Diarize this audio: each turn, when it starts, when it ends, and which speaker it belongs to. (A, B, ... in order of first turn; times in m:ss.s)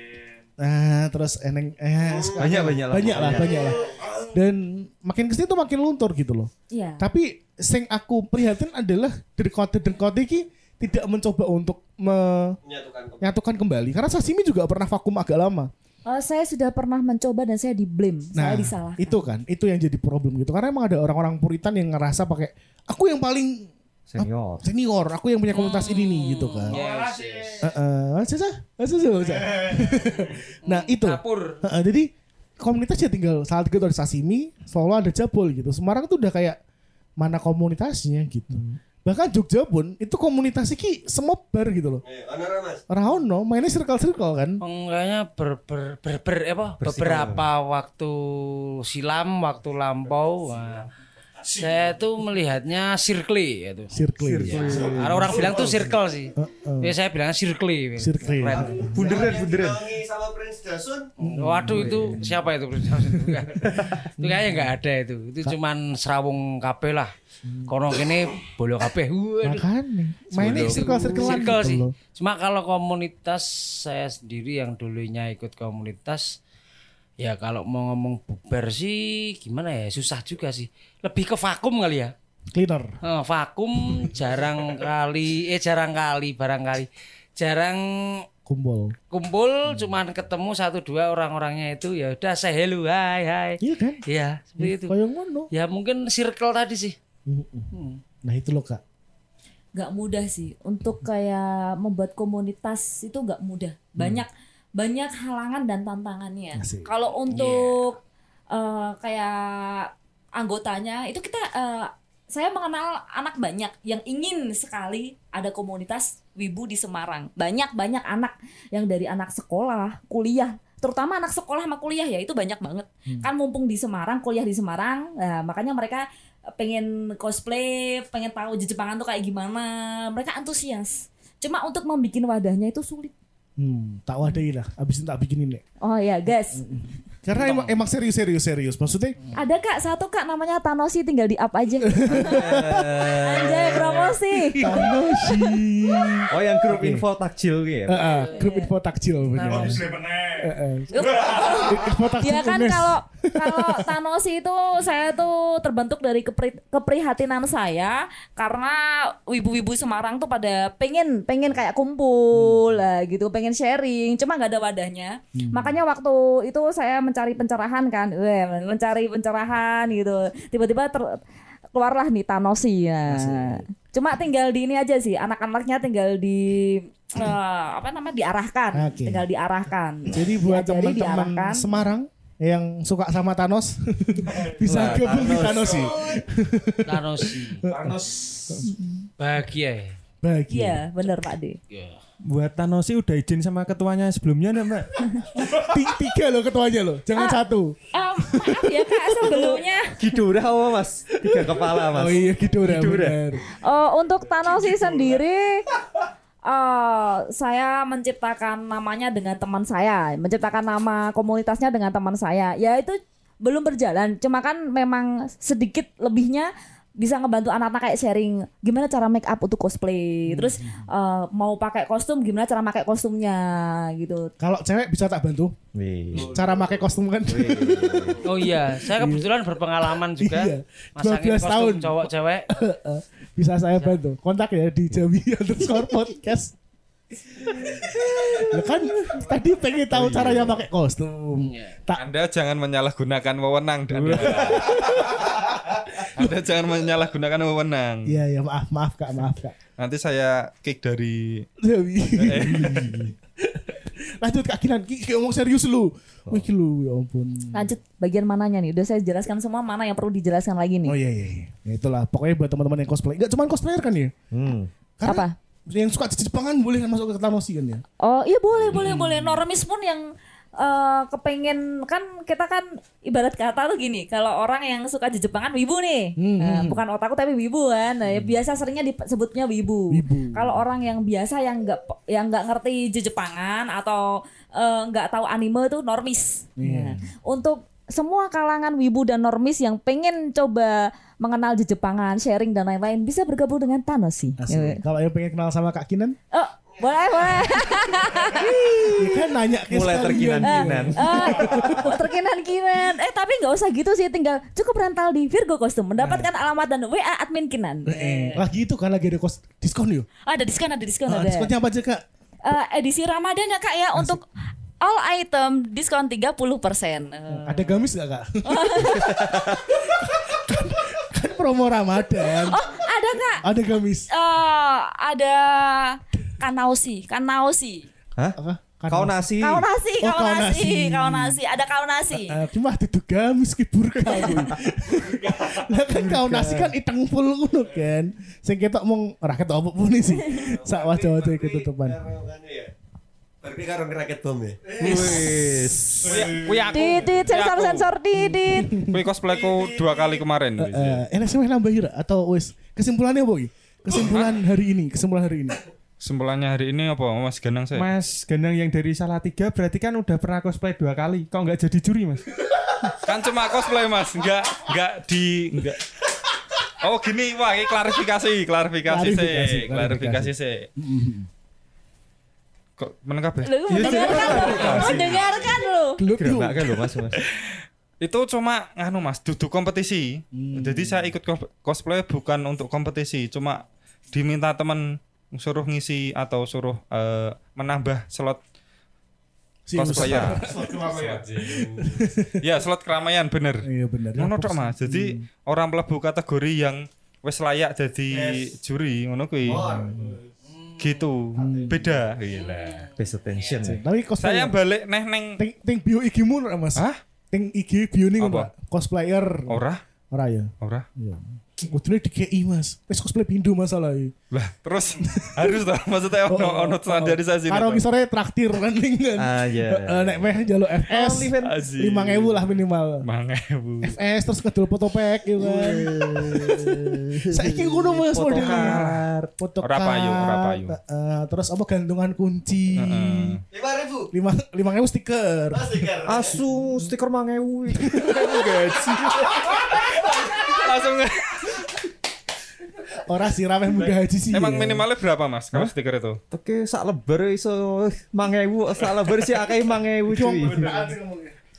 0:00.6-0:12.6 A
0:02.1-0:04.2 B
0:02.4-0:03.6 C
0:06.7-0:07.1 D
0:12.6-0:13.3 B
0:13.2-0:15.7 A
0:16.1-0:19.2 D
0:18.4-0:26.8 A
0:24.1-0:24.6 C
0:25.5-0:27.7 E
0:27.6-0:36.6 A
0:30.6-0:31.6 E
0:37.2-0:42.0 A
0:38.5-0:38.8 C
0:42.0-0:42.8 B
0:42.9-0:44.6 A
0:44.6-0:50.9 E
0:46.8-0:47.5 C
0:51.4-0:58.9 E
0:53.9-0:55.0 A
0:54.2-0:55.9 C
0:54.6-0:55.8 B
0:56.4-0:57.0 A
0:58.0-0:59.3 A
0:58.5-0:59.9 C
0:58.8-1:01.2 B
1:01.2-1:02.3 A
1:01.2-1:07.1 E
1:01.6-1:02.4 C
1:02.8-1:04.7 A
1:03.7-1:04.1 C
1:07.4-1:07.8 A
1:07.7-1:09.7 E
1:09.4-1:11.9 A
1:10.4-1:11.6 C
1:10.4-1:16.4 E
1:17.2-1:22.1 E
1:22.5-1:23.0 A
1:23.0-1:28.3 E
1:28.5-1:29.0 A
1:29.1-1:35.0 E
1:33.6-1:34.0 A
1:34.6-1:35.5 A
1:35.5-1:37.0 E
1:37.3-1:37.7 A
1:37.7-1:38.0 E
1:38.2-1:38.8 A
1:39.8-1:48.0 D
1:44.0-1:44.2 A
1:46.6-1:46.9 A
1:47.3-1:47.9 E
1:48.5-2:06.1 D
2:06.6-2:13.1 D
2:13.6-2:15.6 A
2:15.8-2:16.6 D
2:16.5-2:19.2 A
2:17.4-2:17.8 E
2:19.3-2:25.4 D
2:21.9-2:22.8 A
2:22.1-2:24.2 C
2:24.5-2:27.0 A
2:26.3-2:28.1 C
2:27.9-2:29.8 A
2:28.1-2:28.4 E
2:28.3-2:28.7 D
2:29.3-2:30.0 E
2:29.9-2:30.4 F
2:30.4-2:33.9 A
2:30.9-2:51.2 D
2:42.4-2:42.6 A
2:45.4-2:45.8 A
2:51.7-3:01.7 D
2:53.1-2:53.6 A
2:58.7-2:59.3 A
3:00.1-3:08.7 A
3:04.6-3:06.0 C
3:05.4-3:06.2 B
3:06.9-3:07.7 E
3:07.9-3:08.2 C
3:08.6-3:09.1 D
3:09.2-3:10.0 E
3:10.2-3:10.8 A
3:10.5-3:11.6 D
3:11.7-3:12.0 E
3:12.3-3:14.9 G
3:15.4-3:19.6 A
3:17.9-3:20.2 D
3:19.9-3:23.2 C
3:21.2-3:23.4 A
3:23.5-3:25.7 D
3:26.5-3:44.3 D
3:40.3-3:40.9 A
3:44.4-3:45.6 A
3:45.8-3:46.4 C
3:46.1-3:56.6 A
3:47.3-3:48.2 C
3:48.2-3:52.5 E
3:58.1-3:58.5 C
3:58.3-4:02.1 A
3:59.9-4:00.6 C
4:01.4-4:01.8 E
4:02.0-4:05.4 F
4:04.0-4:04.5 C
4:04.1-4:05.4 A
4:05.9-4:08.2 F
4:08.1-4:09.6 A
4:09.8-4:11.5 F
4:11.6-4:17.7 A
4:12.1-4:13.1 F
4:17.5-4:21.0 D
4:20.8-4:24.2 A
4:24.3-4:24.7 C
4:25.0-4:27.8 A
4:25.0-4:25.4 D
4:28.0-4:54.8 D
4:28.7-4:29.4 A
4:36.2-4:36.8 A
4:39.9-4:40.6 A
4:46.6-4:47.1 A
4:54.4-4:56.2 A
4:56.3-4:59.3 D
4:56.8-4:58.6 B
4:58.9-5:01.9 A
4:59.7-5:01.8 C
5:00.4-5:08.4 D
5:06.0-5:06.3 A
5:07.9-5:10.1 A
5:10.3-5:11.5 D
5:11.1-5:12.0 A
5:12.4-5:14.2 D
5:14.8-5:17.8 D
5:17.3-5:22.6 A
5:18.4-5:19.2 D
5:19.0-5:19.6 C
5:22.5-5:23.4 D
5:23.4-5:24.1 A
5:24.1-5:27.9 D
5:28.4-5:29.3 A
5:28.9-5:29.7 C
5:29.4-5:32.4 D
5:30.0-5:31.4 A
5:32.1-5:42.0 A
5:36.0-5:36.7 C
5:40.2-5:42.7 B
5:43.4-5:45.4 B
5:44.8-5:46.2 A
5:44.8-5:46.2 C
5:46.1-5:47.9 F
5:46.1-5:46.5 B
5:46.7-5:48.8 D
5:48.2-5:49.0 A
5:48.9-5:51.0 F
5:49.5-5:49.8 B
5:50.6-5:55.6 A
5:53.9-5:54.4 F
5:56.0-5:57.9 F
5:57.8-6:02.2 G
6:03.0-6:05.8 F
6:06.7-6:10.7 F
6:08.9-6:11.3 A
6:12.8-6:15.2 F
6:13.4-6:16.0 D
6:13.7-6:15.2 C
6:14.2-6:14.9 A
6:16.0-6:17.1 A
6:16.2-6:17.2 C
6:18.0-6:28.4 F
6:20.3-6:21.1 A
6:29.7-6:32.4 A
6:29.8-6:39.7 F
6:29.9-6:30.4 C
6:30.4-6:31.2 B
6:33.6-6:35.2 A
6:38.1-6:38.5 B
6:39.5-6:40.2 A
6:39.5-6:40.2 B
6:40.5-6:41.0 E
6:40.8-6:42.9 F
6:41.4-6:42.0 A
6:42.3-6:43.7 E
6:43.0-6:43.8 C
6:43.6-6:44.6 A
6:44.2-6:45.4 F
6:45.4-6:54.1 A
6:46.8-6:47.0 F
6:48.2-6:48.5 F
6:49.5-6:49.8 F
6:50.6-6:50.9 F
6:54.3-6:57.8 F
6:55.0-6:55.6 A
6:56.3-7:03.1 A
6:59.2-7:01.6 C
7:01.4-7:04.0 F
7:03.8-7:08.8 A
7:05.4-7:09.3 C
7:08.3-7:09.0 F
7:09.4-7:13.4 A
7:09.6-7:10.8 F
7:12.8-7:13.4 F
7:13.5-7:14.1 B
7:14.1-7:15.9 A
7:15.5-7:16.4 B
7:16.0-7:19.5 C
7:17.7-7:19.2 A
7:19.1-7:21.7 F
7:23.0-7:24.8 A
7:24.3-7:26.2 F
7:26.3-7:30.8 C
7:29.0-7:29.3 F
7:30.1-7:31.4 A
7:30.4-7:31.0 F